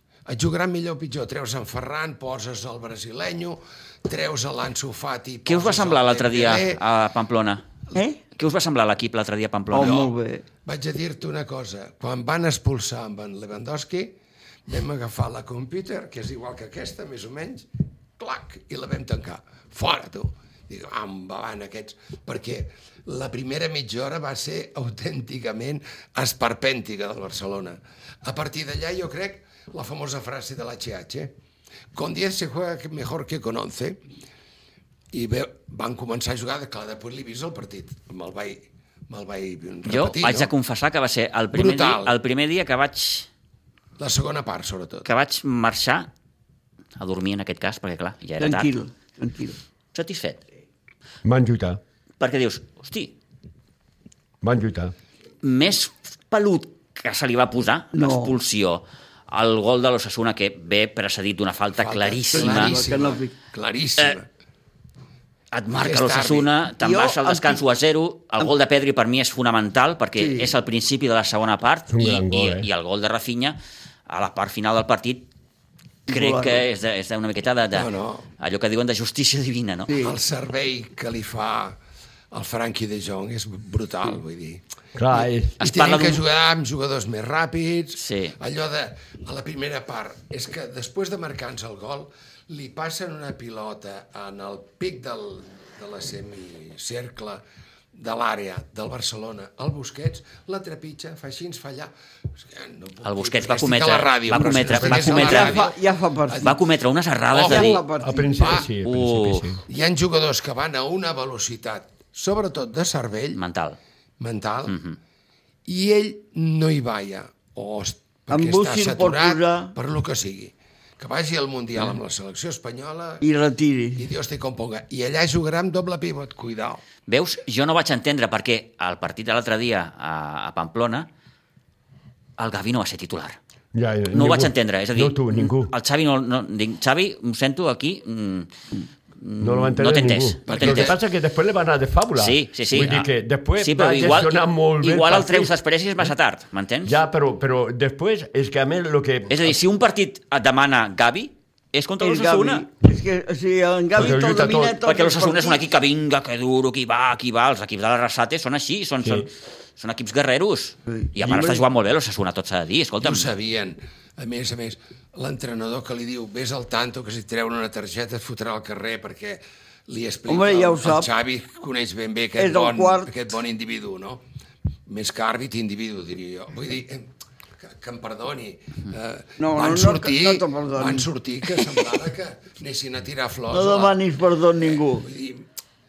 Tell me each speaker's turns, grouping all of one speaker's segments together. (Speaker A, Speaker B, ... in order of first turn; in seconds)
Speaker A: 0.3-6.8, 9.7-10.1, 10.7-17.7, 18.2-31.3, 31.9-34.0, 35.1-40.5, 41.5-42.1, 44.0-45.1, 61.8-64.3, 65.7-66.5, 77.7-78.3, 79.9-81.8, 82.3-84.6, 85.6-97.4, 97.9-106.6, 107.3-108.7, 109.7-113.4, 114.2-114.8, 115.7-123.2, 124.0-126.8, 140.5-141.0, 163.0-174.2, 174.9-184.0, 184.6-185.4
Speaker B: 5.5-7.6, 8.4-10.1, 39.9-43.3, 45.0-46.1, 47.0-48.7, 49.9-50.4, 52.2-53.1, 55.4-62.8, 65.5-75.3, 76.1-79.9, 85.6-86.2, 88.0-88.4, 103.0-105.7, 106.4-107.8, 108.8-109.5, 113.3-113.8, 114.7-115.0, 127.1-131.1, 132.4-133.4, 134.1-138.5, 139.2-140.9, 142.2-143.1, 143.6-147.0, 149.3-152.7, 154.8-163.3
Speaker C: 7.9-8.2, 9.7-10.4, 48.4-49.6, 57.9-58.4, 62.3-63.3, 66.8-67.6, 70.2-70.6, 76.1-76.6, 79.9-80.2, 104.3-106.6, 107.4-108.6, 118.3-119.7, 123.2-124.1, 152.0-155.7, 160.9-161.6, 170.3-171.1, 172.4-173.1, 179.4-181.1, 183.5-185.1
Speaker D: 51.2-51.8, 54.4-54.9, 71.9-72.7, 85.0-85.6, 104.8-105.3, 108.0-109.6, 133.7-135.7, 139.4-145.5, 146.8-149.6, 153.9-154.8, 159.0-159.3, 161.3-161.6